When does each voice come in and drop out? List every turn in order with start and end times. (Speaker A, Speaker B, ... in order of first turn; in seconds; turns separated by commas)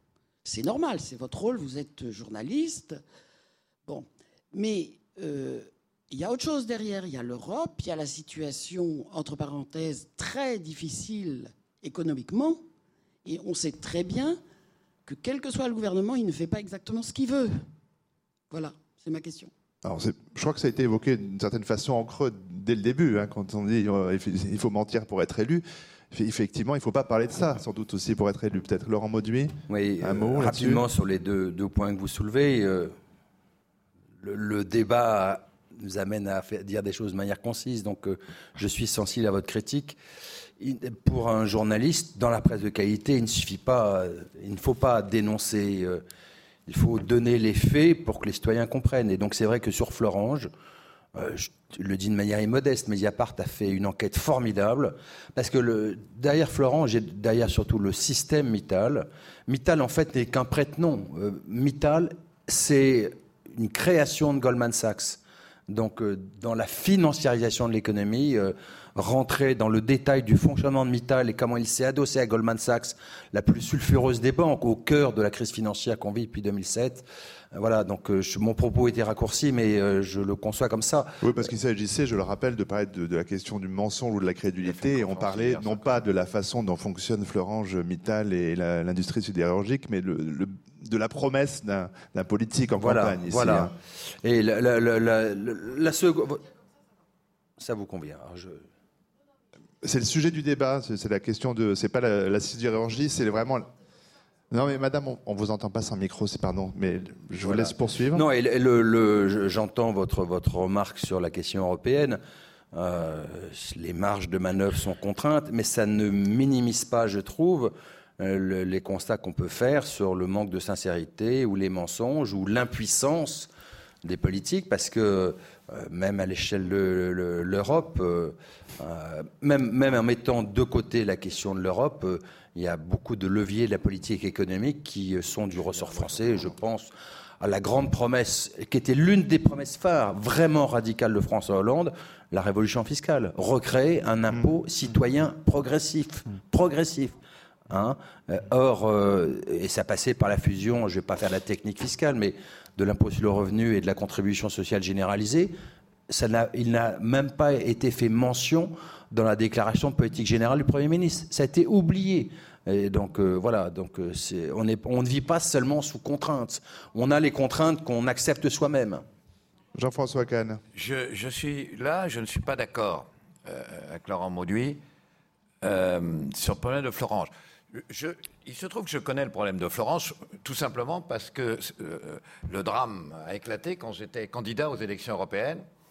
Speaker A: 0.4-3.0, Speaker A: 3.9-12.6, Speaker A: 13.2-14.4, Speaker A: 15.1-17.6, Speaker A: 18.5-19.5, Speaker B: 19.8-30.8, Speaker C: 29.7-32.9, Speaker C: 34.2-40.0, Speaker C: 40.6-46.0, Speaker C: 46.7-50.5, Speaker C: 51.1-81.2, Speaker B: 81.2-93.7, Speaker D: 84.6-86.0, Speaker C: 92.8-96.5, Speaker C: 97.6-98.6, Speaker B: 99.8-103.7, Speaker B: 104.5-108.2, Speaker C: 107.4-112.2, Speaker C: 112.7-123.5, Speaker C: 124.0-147.1, Speaker C: 147.7-155.5, Speaker C: 156.1-169.0, Speaker B: 169.7-170.6, Speaker D: 170.7-174.8, Speaker D: 175.6-185.6